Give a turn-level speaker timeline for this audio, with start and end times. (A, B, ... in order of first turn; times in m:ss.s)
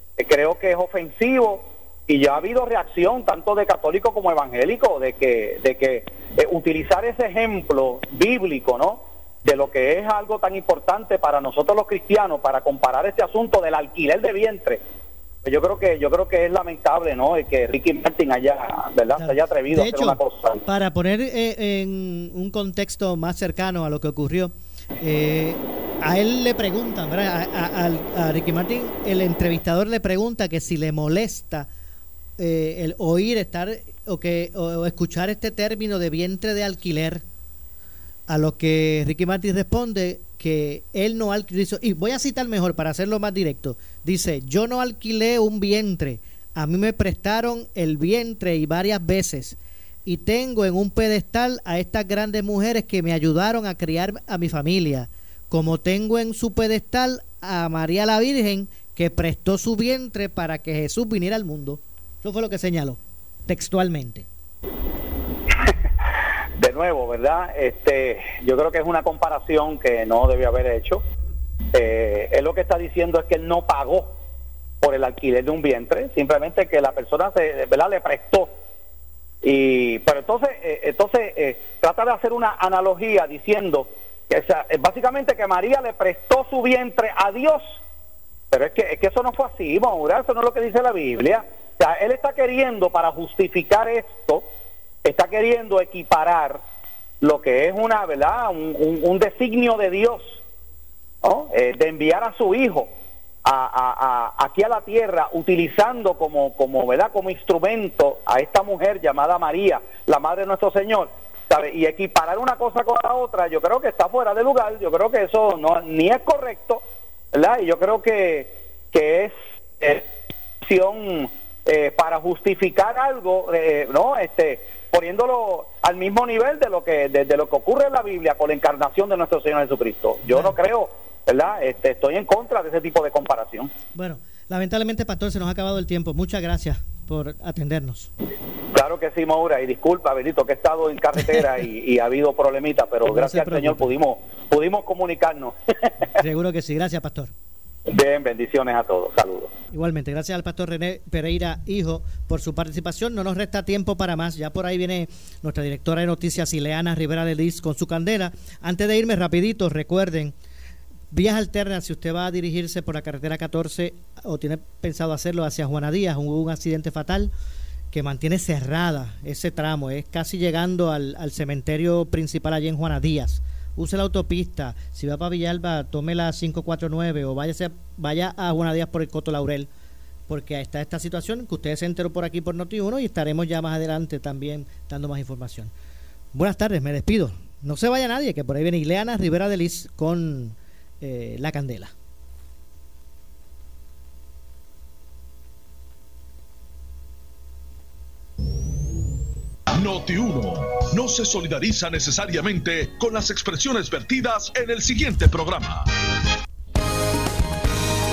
0:00.2-0:14.8 A
0:15.4-0:20.6 A
0:19.2-0:31.7 B
0:32.4-0:37.2 B
0:38.3-1:04.3 B
1:06.6-1:11.0 A
1:11.7-1:14.1 A
1:14.8-1:18.5 A
1:19.4-1:27.8 A
1:28.5-1:34.4 A
1:35.0-1:36.6 A
1:37.2-1:40.4 A
1:41.2-1:42.9 A
1:43.4-1:56.8 A
1:57.3-2:00.1 A
2:00.6-2:13.7 A
2:13.9-2:18.1 B
2:18.7-2:26.1 A
2:23.1-2:23.9 B
2:26.2-2:27.3 B
2:27.9-2:29.5 A
2:29.7-2:40.4 B
2:41.1-2:47.3 B
2:47.9-2:59.7 B
3:00.3-3:05.7 B
3:06.3-3:11.9 B
3:19.8-3:25.9 C